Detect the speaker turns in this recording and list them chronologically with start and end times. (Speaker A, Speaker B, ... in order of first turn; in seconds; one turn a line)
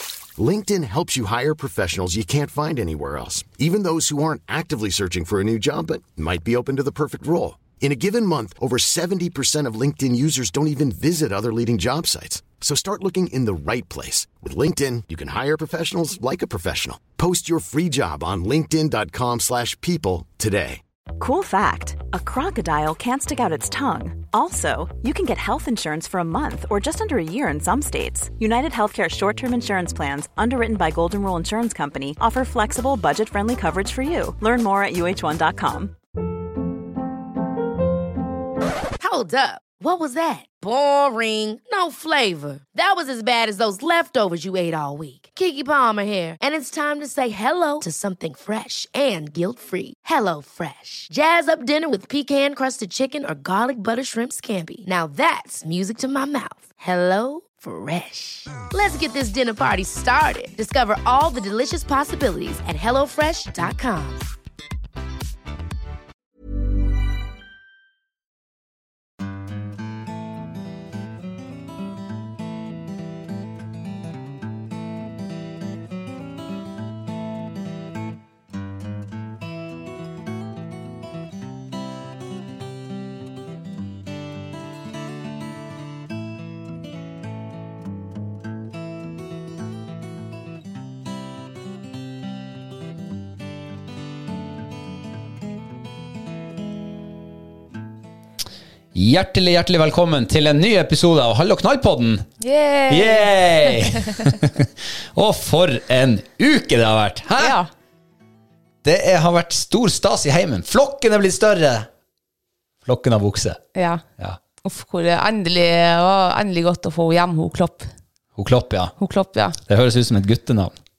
Speaker A: 0.4-20.8
Speaker B: 21.2-35.9
Speaker C: 39.0-64.2
Speaker D: 98.9-102.3
Speaker E: 102.4-104.1
Speaker D: 102.9-107.6
Speaker E: 107.4-107.7
Speaker D: 108.8-111.9
Speaker D: 112.8-113.6
Speaker E: 113.7-114.0
Speaker E: 114.6-117.9
Speaker D: 118.3-118.9
Speaker E: 119.0-119.6
Speaker D: 119.7-120.7